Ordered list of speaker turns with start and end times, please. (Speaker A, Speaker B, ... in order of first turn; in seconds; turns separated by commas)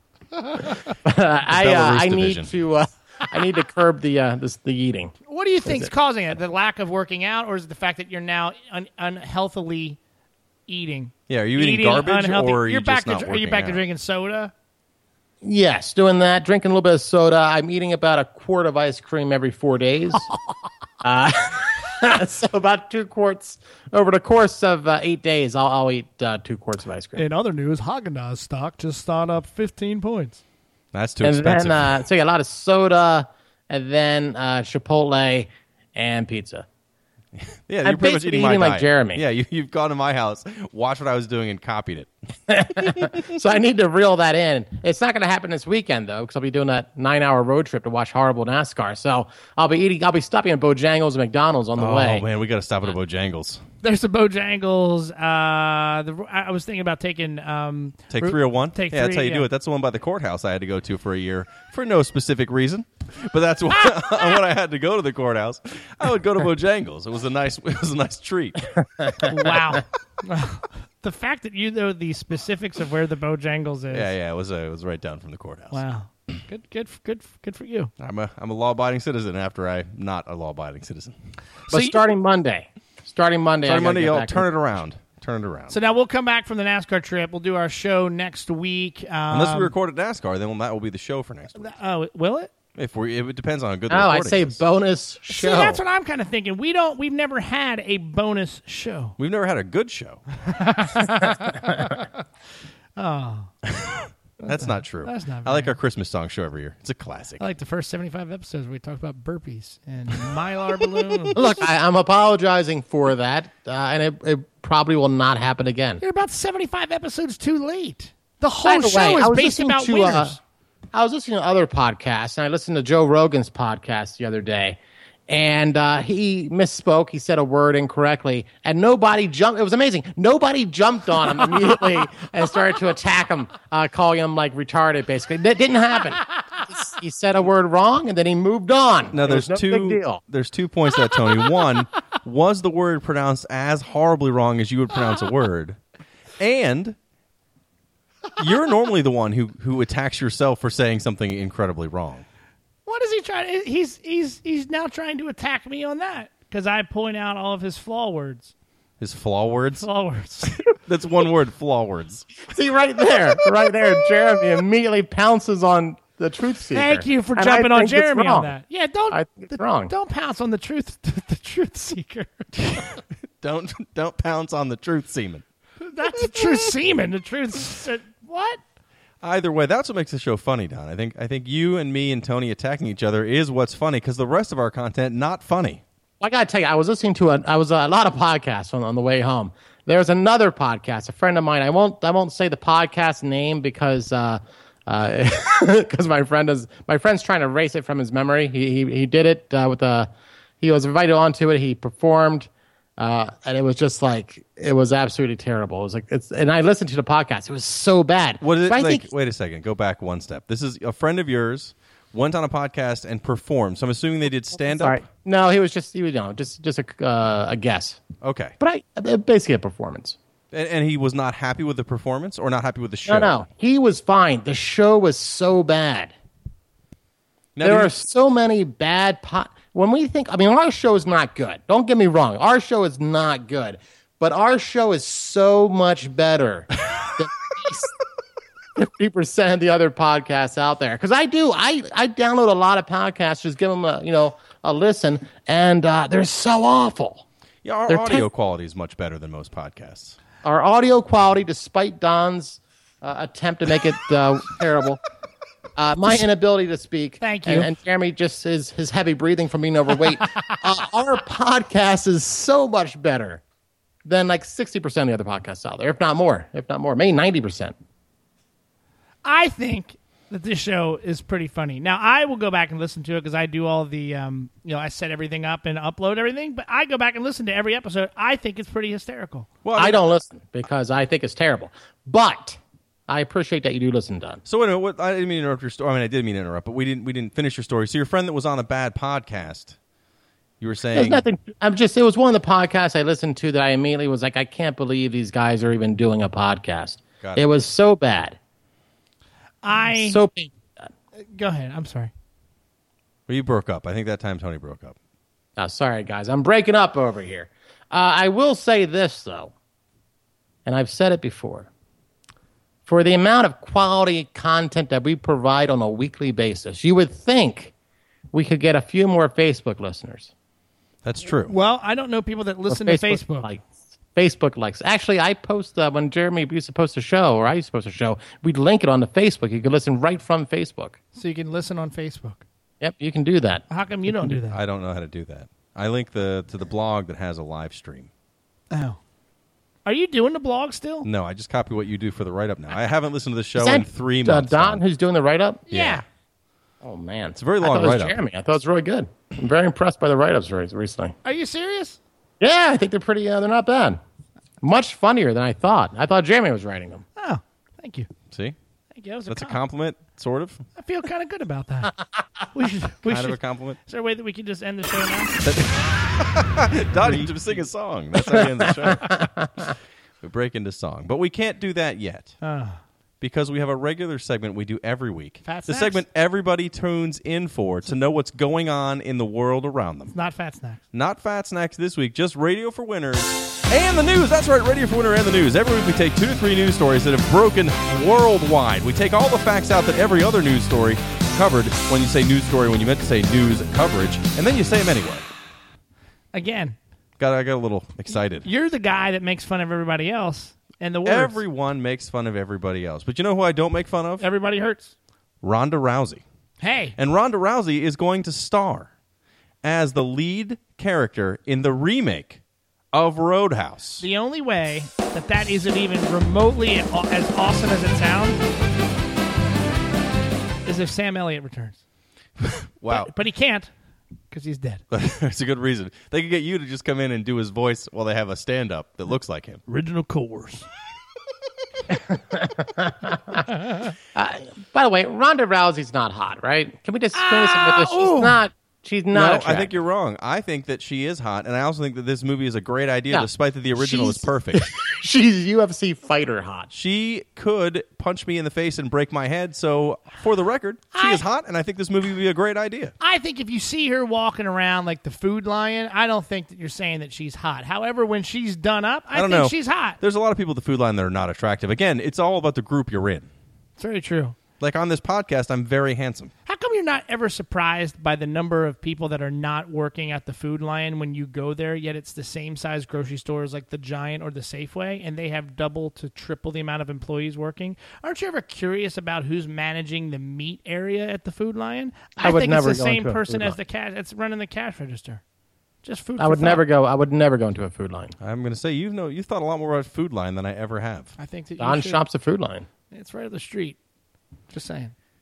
Speaker A: 1.0-5.2, Speaker B: 1.5-2.5, Speaker C: 5.3-10.0, Speaker C: 10.7-14.5, Speaker B: 11.3-13.8, Speaker A: 15.4-20.3, Speaker A: 21.0-27.2, Speaker C: 27.2-30.4, Speaker B: 30.9-32.0, Speaker A: 31.2-36.7, Speaker B: 37.4-42.1, Speaker A: 37.8-39.2, Speaker A: 42.5-52.2, Speaker B: 42.7-43.2, Speaker B: 51.8-53.6, Speaker C: 53.8-59.5, Speaker B: 58.1-68.7, Speaker C: 69.2-74.1, Speaker B: 73.9-75.8, Speaker C: 75.7-77.9, Speaker B: 78.0-81.2, Speaker C: 81.7-82.0, Speaker A: 81.7-84.5, Speaker B: 83.7-85.8, Speaker C: 85.7-89.7, Speaker B: 89.3-91.7, Speaker C: 91.6-92.5, Speaker B: 92.8-94.6, Speaker A: 93.9-95.8, Speaker C: 95.3-99.2, Speaker B: 99.2-100.2, Speaker C: 100.5-102.1, Speaker C: 103.0-103.5, Speaker B: 103.7-107.4, Speaker C: 104.4-105.8, Speaker C: 107.4-111.4, Speaker A: 111.3-116.0, Speaker C: 116.0-120.4, Speaker A: 118.7-120.4, Speaker A: 120.9-124.8, Speaker A: 125.3-140.2, Speaker B: 139.1-145.8, Speaker B: 146.4-147.0, Speaker B: 148.4-152.2, Speaker C: 152.9-158.5, Speaker B: 159.0-159.9, Speaker C: 159.8-160.6, Speaker B: 160.5-162.3, Speaker A: 162.5-168.5, Speaker C: 166.7-172.9, Speaker A: 169.1-169.9, Speaker B: 172.6-172.9, Speaker B: 173.4-175.4, Speaker C: 175.8-178.6, Speaker B: 179.2-185.8, Speaker A: 186.2-200.1, Speaker A: 200.6-209.1, Speaker B: 208.4-215.1, Speaker A: 214.7-218.0, Speaker B: 218.2-218.6, Speaker A: 218.6-220.2, Speaker B: 220.5-223.4, Speaker A: 223.1-226.1, Speaker B: 227.6-227.9, Speaker A: 227.6-237.9, Speaker A: 238.8-247.2, Speaker B: 247.6-250.2, Speaker A: 247.9-248.2, Speaker A: 250.4-255.0, Speaker A: 255.8-263.4, Speaker C: 257.2-257.7, Speaker A: 264.1-267.7, Speaker C: 269.2-279.5, Speaker B: 279.6-280.0, Speaker A: 279.8-284.4, Speaker B: 284.5-289.8, Speaker B: 290.6-291.2, Speaker A: 290.9-298.4, Speaker C: 299.6-300.2, Speaker A: 299.9-300.6, Speaker C: 301.2-302.1, Speaker B: 303.3-305.0, Speaker A: 305.6-309.5, Speaker A: 310.7-311.7, Speaker A: 312.9-317.7, Speaker A: 318.3-320.3, Speaker B: 321.0-321.5, Speaker C: 321.5-323.5, Speaker A: 322.7-331.0, Speaker C: 331.1-332.4, Speaker A: 332.8-333.6, Speaker C: 333.7-334.6, Speaker B: 334.5-338.1, Speaker C: 338.7-339.0, Speaker C: 339.9-341.1, Speaker B: 341.1-344.8, Speaker A: 343.6-345.6, Speaker C: 345.7-346.0, Speaker B: 345.7-346.0, Speaker A: 346.8-351.1, Speaker B: 347.4-348.2, Speaker C: 351.2-352.0, Speaker A: 352.4-354.0, Speaker A: 354.6-357.1, Speaker C: 357.2-358.1, Speaker B: 358.3-358.6, Speaker C: 358.9-359.6, Speaker B: 359.3-360.6, Speaker C: 360.8-361.9, Speaker C: 362.5-365.4, Speaker B: 363.1-363.8, Speaker B: 365.4-369.2, Speaker C: 367.0-367.3, Speaker A: 368.3-369.5, Speaker B: 370.2-372.4, Speaker C: 372.4-372.8, Speaker B: 373.2-380.1, Speaker C: 375.4-376.0, Speaker C: 380.1-380.8, Speaker B: 380.9-395.3, Speaker C: 396.3-396.8, Speaker B: 397.2-398.5, Speaker C: 398.4-401.4, Speaker B: 401.1-404.2, Speaker C: 404.2-404.9, Speaker B: 405.4-406.2, Speaker C: 406.6-407.0, Speaker B: 407.0-408.9, Speaker B: 409.6-412.4, Speaker B: 412.9-414.1, Speaker C: 414.0-418.4, Speaker C: 420.6-421.8, Speaker B: 422.4-423.1, Speaker C: 422.9-423.7, Speaker C: 424.3-424.8, Speaker B: 424.9-429.6, Speaker C: 429.7-430.7, Speaker A: 431.9-433.4, Speaker C: 433.5-433.9, Speaker A: 434.1-439.7, Speaker C: 437.1-438.4, Speaker B: 439.1-444.7, Speaker A: 443.1-446.7, Speaker B: 446.7-452.9, Speaker C: 450.9-451.2, Speaker C: 453.0-460.0, Speaker B: 459.1-463.3, Speaker C: 463.8-464.4, Speaker B: 464.6-466.3, Speaker C: 466.5-485.2, Speaker A: 482.2-483.6, Speaker C: 485.8-486.6, Speaker A: 486.2-488.1, Speaker B: 488.2-491.1, Speaker C: 491.2-492.0, Speaker A: 491.6-492.7, Speaker C: 492.9-493.8, Speaker C: 494.5-494.9